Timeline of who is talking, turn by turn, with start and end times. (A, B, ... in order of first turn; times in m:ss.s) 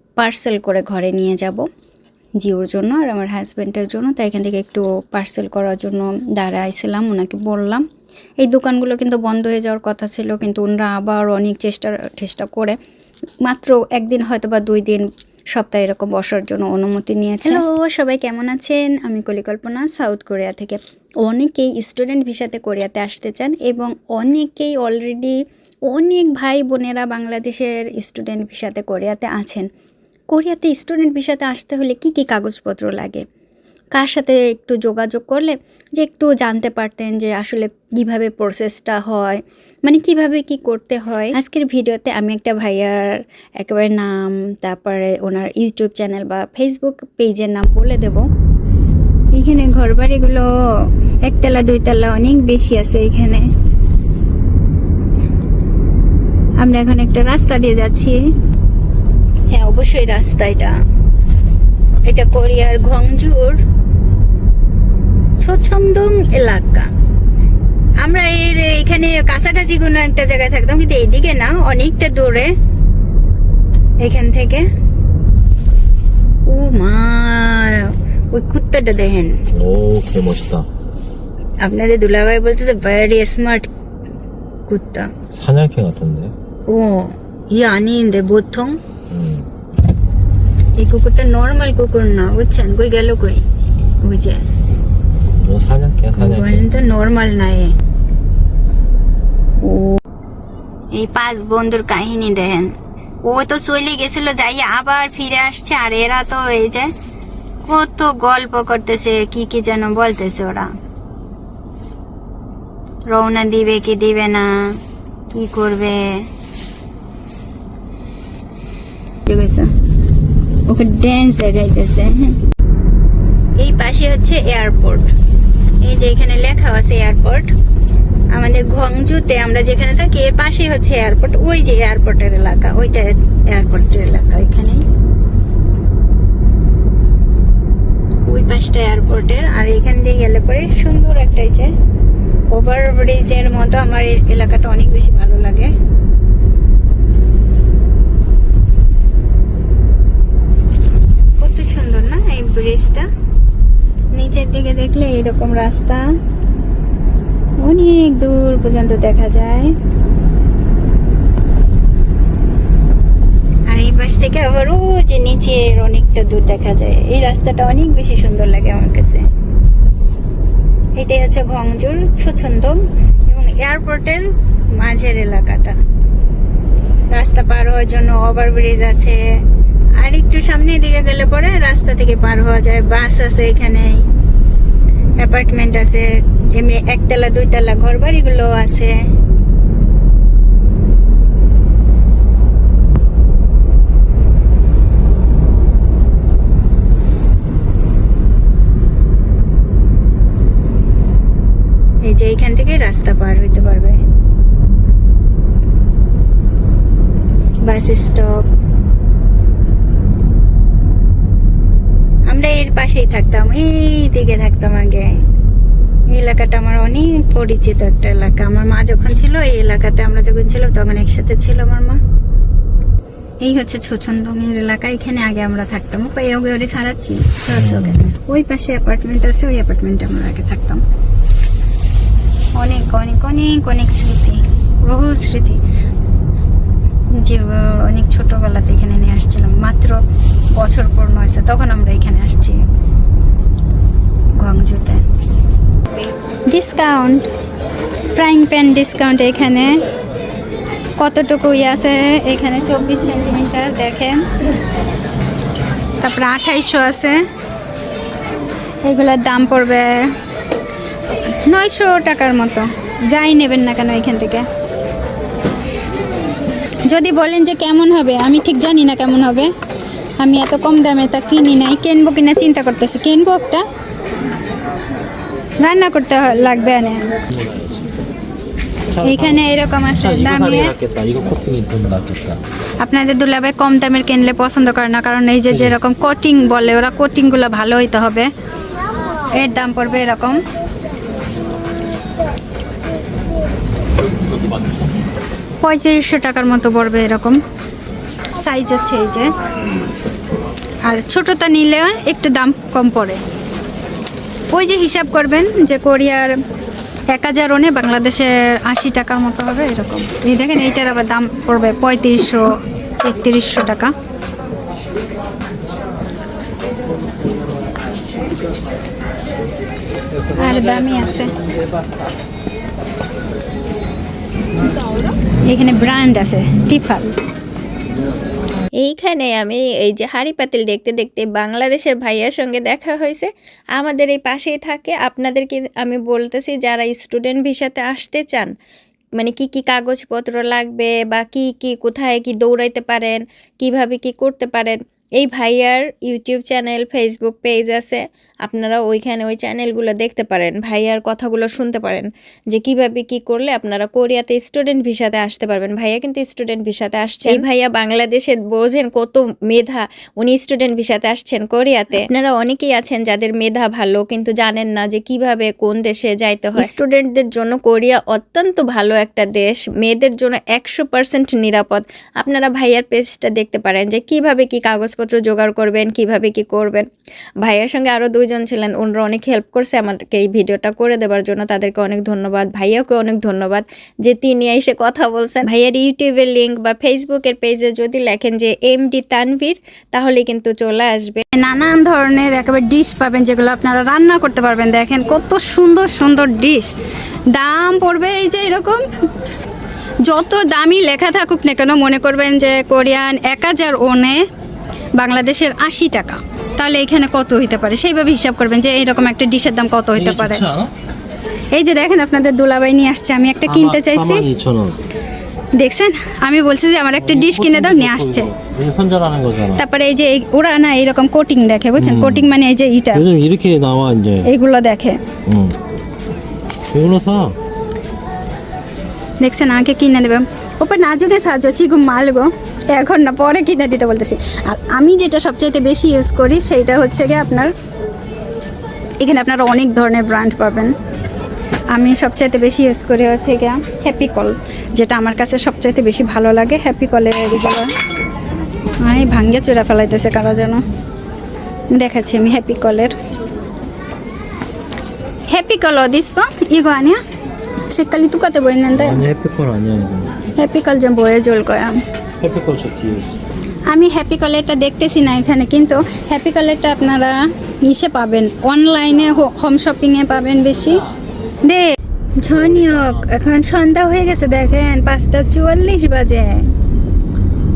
0:00.2-0:01.7 A
0:02.4-0:07.8 A
0:08.4-0:12.8 A
0:13.4-0:25.4 A
0:25.9-0:29.7 A
0:30.3-0:33.2 A
0:33.9-0:48.3 A
0:49.3-0:50.5 A
0:51.2-0:53.4 A
0:56.6-0:58.2 A
0:59.5-1:00.8 A
1:02.1-1:03.6 A
1:05.4-1:06.9 A
1:08.0-1:12.5 A
1:14.0-1:14.6 A
1:16.5-1:19.4 A
1:19.5-1:20.6 B
1:21.6-1:23.7 A
1:24.7-1:25.1 A
1:25.3-1:26.3 B
1:26.7-1:28.8 A
1:29.1-1:29.5 B
1:30.8-1:33.4 A
1:34.0-1:34.5 A
1:35.4-1:36.7 B
1:36.2-1:37.8 A
1:39.6-1:40.0 A
1:40.9-1:46.9 A
1:47.6-1:50.7 A
1:53.1-1:54.6 A
1:55.3-1:56.2 A
1:59.3-1:59.7 A
2:00.7-2:02.4 A
2:03.6-2:05.1 A
2:05.8-2:07.5 A
2:08.3-2:14.8 A
2:18.2-2:21.7 A
2:22.5-2:25.7 A
2:31.4-2:33.0 A
2:34.1-2:36.1 A
2:37.6-2:39.7 A
2:43.7-2:49.3 A
2:51.0-2:55.8 A
2:57.1-2:59.2 A
3:00.0-3:04.0 A
3:05.2-3:08.9 A
3:22.0-3:24.0 A
3:27.6-3:28.5 A
3:32.3-3:35.2 A
3:36.1-3:42.0 A
3:43.4-3:50.8 A
3:47.5-3:48.0 B
3:52.5-3:55.6 A
3:57.1-4:00.0 A
4:00.5-4:02.6 A
4:04.4-4:05.0 A
4:06.5-4:07.2 A
4:08.1-4:09.8 A
4:11.0-4:14.3 A
4:16.0-4:17.2 A
4:18.8-4:19.9 A
4:21.4-4:24.5 A
4:26.8-4:29.5 A
4:30.2-4:33.6 A
4:35.6-4:37.0 A
4:37.3-4:37.9 B
4:38.9-4:42.4 B
4:39.0-4:40.7 A
4:42.8-4:48.3 A
4:45.5-4:45.8 B
4:49.3-4:50.4 A
4:55.6-4:57.4 A
4:58.4-4:59.3 A
5:00.8-5:03.2 A
5:04.5-5:06.4 A
5:07.1-5:13.9 A
5:20.4-5:21.3 A
5:25.5-5:27.1 A
5:28.8-5:38.5 C
5:39.2-6:16.8 C
6:17.4-6:31.2 C
6:31.3-6:36.7 A
6:37.3-6:38.8 A
6:40.0-6:44.2 A
6:45.0-6:50.4 A
6:49.9-6:50.7 B
6:51.5-6:54.2 A
6:53.4-6:54.8 B
6:55.6-6:58.3 A
6:57.0-6:59.6 B
6:59.6-7:03.0 A
7:01.8-7:02.4 B
7:02.9-7:04.3 B
7:04.2-7:05.0 A
7:05.3-7:05.6 B
7:06.7-7:07.3 B
7:09.2-7:17.5 A
7:19.0-7:20.7 A
7:21.7-7:27.7 A
7:28.8-7:30.6 A
7:31.7-7:32.9 A
7:35.3-7:37.0 A
7:37.7-7:39.0 A
7:38.7-7:40.1 B
7:40.4-7:41.8 A
7:42.2-7:43.2 B
7:43.7-7:50.8 A
7:51.4-7:56.5 A